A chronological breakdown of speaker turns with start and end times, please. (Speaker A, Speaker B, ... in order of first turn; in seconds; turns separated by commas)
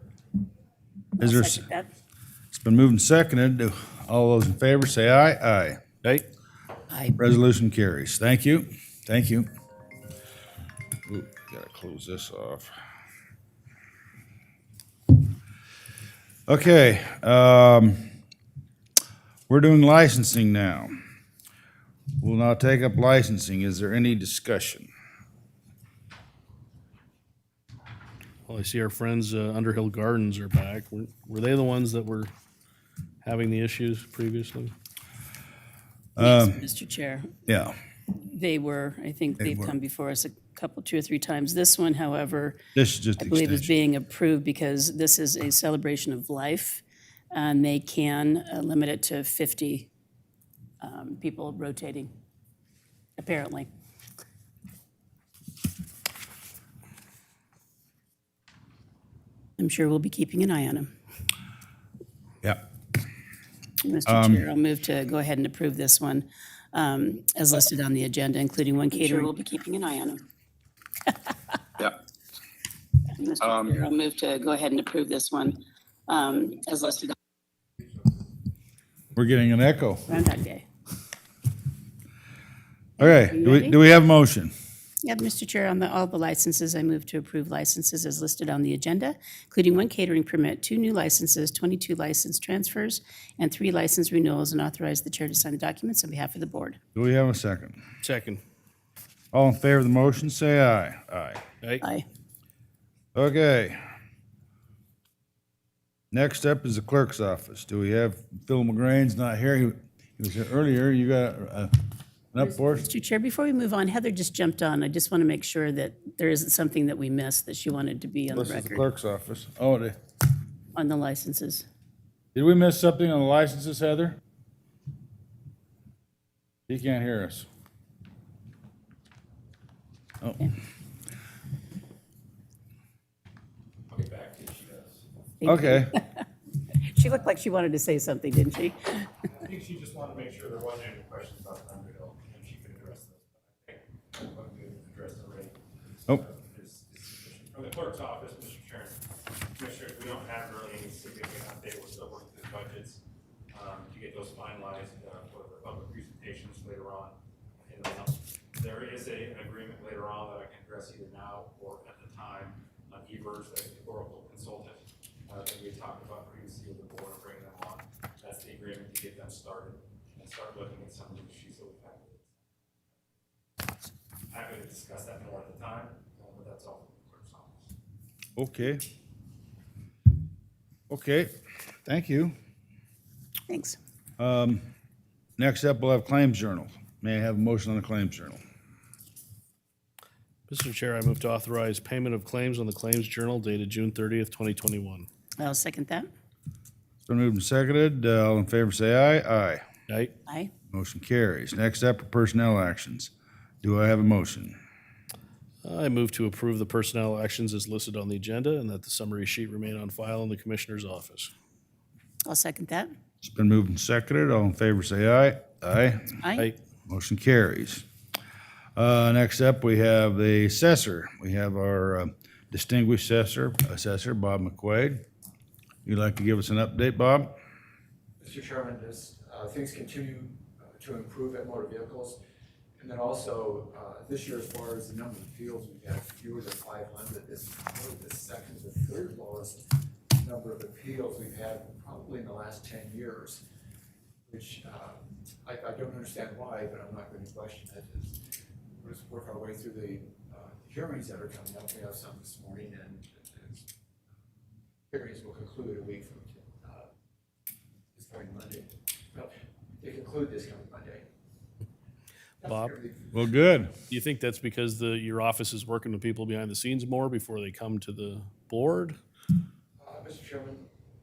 Speaker A: 1.2-1.9, Speaker B: 1.2-1.7, Speaker B: 2.5-5.8, Speaker A: 6.9-7.2, Speaker B: 7.2-9.5, Speaker B: 11.1-12.7, Speaker B: 16.5-18.1, Speaker B: 19.5-21.0, Speaker B: 22.2-24.9, Speaker C: 28.5-32.3, Speaker C: 33.2-34.7, Speaker B: 36.1-36.6, Speaker A: 36.2-37.3, Speaker B: 37.5-37.8, Speaker A: 38.1-42.6, Speaker B: 39.4-39.7, Speaker B: 42.7-43.7, Speaker A: 43.2-46.8, Speaker A: 47.3-49.9, Speaker A: 50.8-52.1, Speaker A: 53.2-53.7, Speaker A: 59.6-60.9, Speaker A: 63.8-70.2, Speaker B: 64.1-64.4, Speaker A: 73.2-75.5, Speaker A: 76.1-77.1, Speaker B: 79.1-80.1, Speaker A: 80.1-80.6, Speaker B: 83.0-84.5, Speaker A: 83.0-83.8, Speaker A: 85.0-96.8, Speaker B: 96.9-97.8, Speaker C: 98.0-98.4, Speaker B: 99.3-101.4, Speaker A: 101.8-102.0, Speaker B: 103.1-103.8, Speaker B: 106.1-111.7, Speaker B: 112.3-112.9, Speaker A: 112.8-118.8, Speaker B: 118.3-120.0, Speaker A: 120.7-121.7, Speaker B: 122.3-124.2, Speaker B: 126.7-127.5, Speaker B: 130.2-130.5, Speaker D: 133.9-135.0, Speaker A: 135.4-136.2, Speaker B: 135.4-135.9, Speaker A: 136.9-139.0, Speaker D: 139.3-149.0, Speaker D: 149.5-153.0, Speaker D: 153.5-172.4, Speaker D: 174.3-177.6, Speaker B: 178.3-178.8, Speaker B: 180.9-182.3, Speaker A: 183.5-183.8, Speaker B: 184.2-184.6, Speaker B: 185.4-188.4, Speaker C: 190.5-195.1, Speaker A: 195.4-196.1, Speaker B: 197.1-199.6, Speaker C: 199.9-200.1, Speaker A: 200.2-200.5, Speaker B: 200.7-204.6, Speaker C: 205.6-211.3, Speaker A: 212.2-212.9, Speaker B: 213.2-216.1, Speaker A: 216.2-216.5, Speaker B: 216.9-217.8, Speaker B: 218.8-225.0, Speaker B: 225.8-227.3, Speaker E: 228.2-232.2, Speaker E: 232.8-243.4, Speaker E: 244.3-248.2, Speaker E: 248.8-253.7, Speaker E: 254.9-256.9, Speaker E: 257.9-261.0, Speaker E: 262.4-263.1, Speaker C: 262.4-262.7, Speaker B: 263.1-263.7, Speaker C: 263.9-269.0, Speaker E: 269.8-270.7